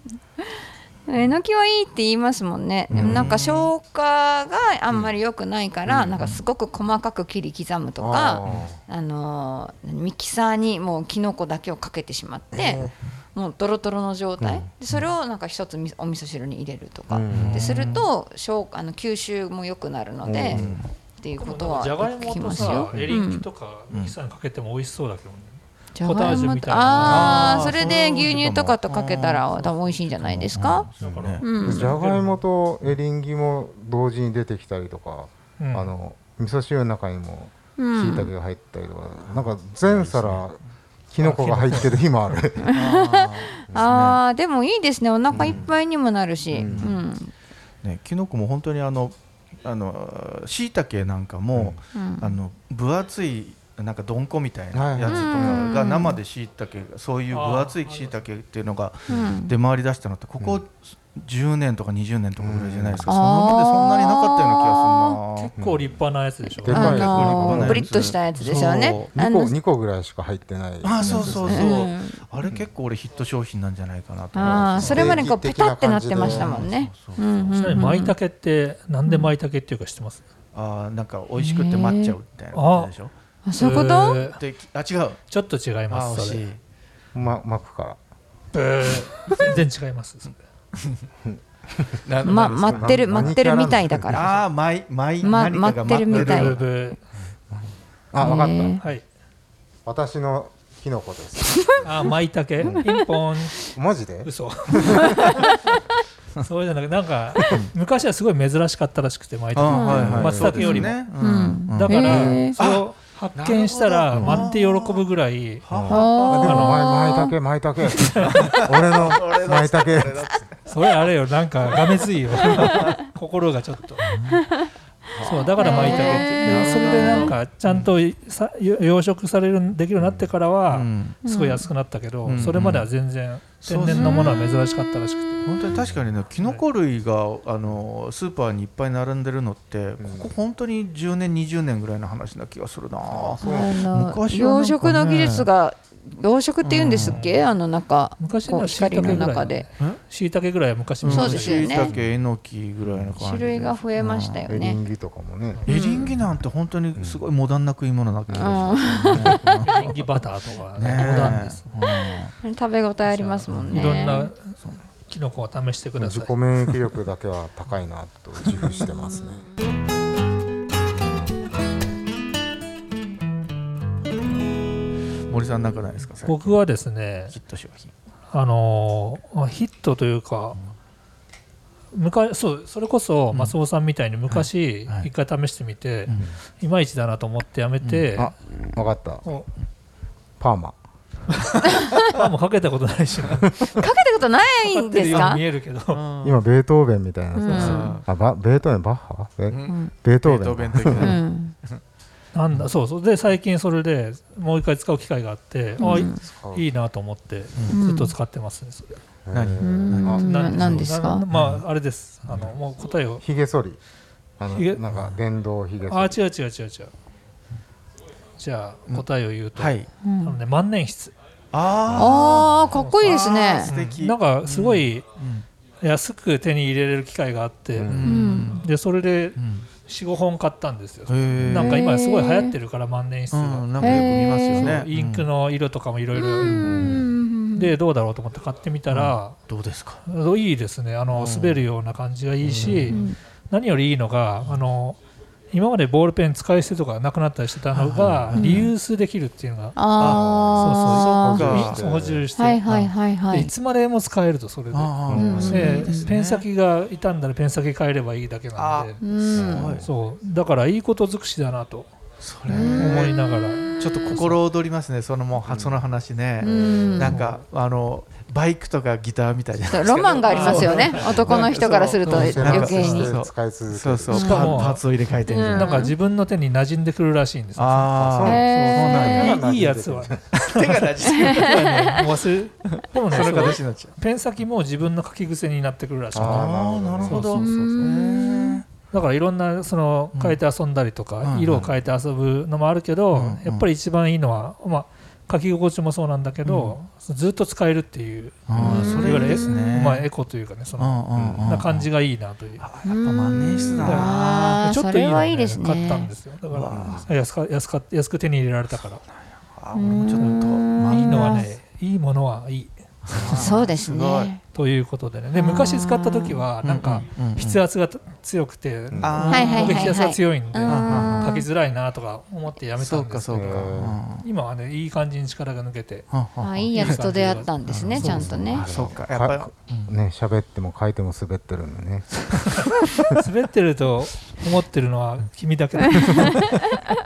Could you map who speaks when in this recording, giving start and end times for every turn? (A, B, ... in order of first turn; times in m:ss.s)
0:00.4-0:20.6 A
0:02.9-0:03.3 B
0:02.9-0:03.7 C
0:05.9-0:06.3 B
0:08.0-0:08.8 B
0:12.6-0:12.9 C
0:12.6-0:12.8 B
0:14.4-0:14.7 B
0:17.1-0:17.9 B
0:17.3-0:18.1 C
0:20.2-0:20.8 B
0:20.5-0:20.9 C
0:21.2-0:23.4 A
0:21.4-0:27.9 D
0:22.5-0:22.9 C
0:25.9-0:30.9 A
0:27.0-0:29.5 C
0:29.6-0:29.9 D
0:30.1-0:31.8 C
0:31.0-0:32.4 D
0:31.1-0:40.6 B
0:31.4-0:31.9 A
0:35.6-0:35.9 D
0:37.8-0:38.3 A
0:39.3-0:40.5 C
0:41.1-0:42.7 B
0:41.2-0:41.9 D
0:42.6-0:47.3 A
0:42.7-0:44.2 C
0:45.3-0:45.7 B
0:45.3-0:45.7 C
0:46.5-0:47.0 B
0:46.6-0:47.0 C
0:47.8-1:05.5 C
0:51.9-0:52.4 A
0:54.7-0:55.7 B
0:55.0-0:56.2 A
0:57.3-0:58.1 D
0:59.1-0:59.3 B
0:59.1-0:59.5 A
1:02.4-1:03.1 B
1:03.0-1:05.2 A
1:05.3-1:07.1 D
1:05.6-1:06.0 B
1:06.6-1:07.9 B
1:06.7-1:09.1 C
1:06.7-1:09.5 A
1:09.1-1:11.7 B
1:10.8-1:15.2 C
1:11.0-1:12.2 A
1:14.3-1:18.1 A
1:14.4-1:16.7 B
1:16.1-1:17.8 C
1:17.5-1:20.2 D
1:19.0-1:19.3 A
1:20.5-1:23.1 C
1:21.4-1:22.2 A
1:22.5-1:22.9 D
1:23.4-1:24.2 A
1:23.6-1:24.4 D
1:24.4-1:25.2 C
1:25.3-1:26.4 D
1:25.9-1:26.6 C
1:27.1-1:28.0 B
1:28.5-1:30.4 D
1:30.8-1:31.0 C
1:31.2-1:32.0 B
1:32.0-1:33.4 C
1:32.2-1:34.3 A
1:32.6-1:34.2 B
1:34.1-1:36.6 C
1:35.2-1:36.6 A
1:36.1-1:37.0 D
1:37.5-1:38.8 B
1:38.2-1:38.8 A
1:39.8-1:42.1 B
1:41.8-1:43.6 D
1:42.6-1:42.9 B
1:43.7-1:45.1 B
1:44.2-1:45.4 D
1:46.4-1:51.0 D
1:49.5-1:55.0 C
1:49.7-1:52.5 A
1:49.9-1:50.8 B
1:51.7-1:55.6 D
1:52.0-1:52.5 B
1:54.1-1:54.4 B
1:55.6-1:56.7 C
1:55.7-2:00.3 B
1:55.9-1:57.3 A
1:56.4-1:56.8 D
1:58.0-1:58.5 D
1:58.1-2:00.7 C
2:00.7-2:04.1 D
2:02.4-2:03.0 C
2:04.0-2:04.4 C
2:05.2-2:07.9 C
2:05.2-2:07.3 A
2:05.2-2:15.5 D
2:10.7-2:11.2 C
2:11.2-2:11.6 A
2:12.2-2:12.9 C
2:13.6-2:14.5 C
2:13.9-2:14.3 A
2:15.4-2:25.5 C
2:15.7-2:16.0 B
2:20.0-2:20.3 B
2:23.1-2:23.8 B
2:23.4-2:29.7 A
2:26.6-2:27.2 C
2:27.0-2:27.4 D
2:28.2-2:31.8 D
2:31.0-2:34.4 C
2:31.1-2:31.9 A
2:32.9-2:33.1 B
2:33.2-2:34.8 A
2:34.5-2:35.6 B
2:35.7-2:40.0 C
2:35.7-2:36.2 A
2:37.0-2:37.2 B
2:38.3-2:39.6 B
2:38.3-2:39.5 A
2:39.6-2:41.7 D
2:40.8-2:42.3 C
2:42.4-2:44.3 A
2:43.1-2:44.5 D
2:43.5-2:43.8 B
2:43.5-2:43.9 C
2:45.1-2:46.3 D
2:46.0-2:49.4 B
2:55.3-2:56.6 C
2:56.2-2:57.3 D
2:57.3-2:57.9 C
2:58.3-3:00.6 D
3:01.9-3:08.3 D
3:04.3-3:05.1 C
3:07.8-3:08.1 C
3:08.2-3:09.2 B
3:10.4-3:10.8 B
3:11.4-3:13.6 D
3:13.7-3:15.4 A
3:14.6-3:16.0 D
3:15.9-3:16.4 C
3:16.2-3:21.2 B
3:17.4-3:18.0 A
3:17.5-3:18.0 C
3:17.5-3:18.0 D
3:19.5-3:21.8 C
3:21.0-3:21.5 A
3:22.3-3:29.0 D
3:25.8-3:26.2 A
3:26.0-3:26.6 B
3:27.7-3:28.1 A
3:29.2-3:30.3 B
3:29.3-3:31.6 C
3:29.6-3:31.2 A
3:30.2-3:33.2 D
3:33.2-3:33.8 B
3:34.4-3:36.2 B
3:34.5-3:34.8 D
3:35.9-3:36.9 D
3:38.4-3:41.1 D
3:38.9-3:39.9 C
3:40.0-3:40.4 A
3:41.5-3:45.4 C
3:41.8-3:42.7 B
3:41.9-3:43.7 A
3:42.7-3:45.0 D
3:45.8-3:56.8 D
3:47.8-3:48.3 B
3:47.9-3:48.6 C
3:48.0-3:48.5 A
3:49.4-3:49.6 C
3:51.1-3:51.8 C
3:51.5-3:52.5 A
3:53.3-3:55.3 C
3:53.8-3:54.7 A
3:56.1-3:57.8 A
3:56.6-3:57.0 B
3:56.6-3:56.9 C
3:57.5-3:59.4 D
3:58.9-4:00.0 C
4:00.0-4:05.0 D
4:01.1-4:01.6 C
4:02.4-4:03.0 C
4:02.9-4:03.2 A
4:05.5-4:09.8 D
4:07.7-4:08.7 C
4:08.4-4:08.6 A
4:09.8-4:11.6 A
4:10.0-4:11.8 C
4:10.0-4:12.2 B
4:10.6-4:12.7 D
4:12.4-4:13.5 A
4:13.3-4:19.0 D
4:14.7-4:16.4 C
4:15.1-4:15.7 B
4:15.1-4:15.9 A
4:18.6-4:19.9 C
4:19.0-4:19.8 A
4:19.3-4:19.8 B
4:19.8-4:21.9 D
4:22.2-4:23.2 C
4:22.5-4:22.9 A
4:22.7-4:24.4 D
4:23.8-4:35.9 C
4:25.4-4:25.8 B
4:26.4-4:27.2 B
4:26.4-4:27.2 A
4:29.7-4:33.1 A
4:30.2-4:31.1 D
4:31.0-4:31.5 B
4:32.1-4:34.6 B
4:32.1-4:33.1 D
4:34.1-4:34.5 A
4:34.1-4:34.8 D
4:35.2-4:35.9 A
4:35.4-4:37.9 D
4:37.6-4:39.4 C
4:38.0-4:40.3 B
4:38.2-4:39.4 A
4:38.5-4:46.5 D
4:40.3-4:42.1 C
4:41.1-4:41.9 A
4:42.6-4:43.9 C
4:46.1-4:47.4 B
4:46.1-4:48.6 C
4:47.0-4:47.7 D
4:47.4-4:48.6 A
4:48.9-5:02.6 D
4:50.1-4:50.4 C
4:51.2-4:51.7 C
4:53.1-4:53.7 C
4:56.4-4:56.7 C
4:58.5-5:00.1 C
4:58.6-4:58.9 B
4:58.6-4:59.8 A
5:00.8-5:01.9 C
5:01.2-5:01.4 B
5:02.6-5:04.6 C
5:02.8-5:06.1 A
5:03.3-5:03.8 B
5:03.8-5:09.0 D
5:06.5-5:07.0 C
5:06.7-5:07.1 B
5:09.0-5:11.5 C
5:09.7-5:11.5 A
5:10.2-5:13.5 D
5:13.1-5:14.3 C
5:13.2-5:13.4 B
5:13.3-5:14.4 A
5:14.5-5:26.1 D
5:15.3-5:16.4 A
5:16.6-5:17.6 C
5:18.9-5:19.3 B
5:19.0-5:20.0 C
5:19.3-5:21.4 A
5:20.7-5:21.4 C
5:22.8-5:24.2 C
5:23.3-5:24.0 B
5:26.1-5:27.0 C
5:26.4-5:28.6 A
5:26.7-5:28.3 D
5:27.6-5:29.9 C
5:27.9-5:32.3 B
5:33.1-5:36.4 D
5:36.0-5:36.5 A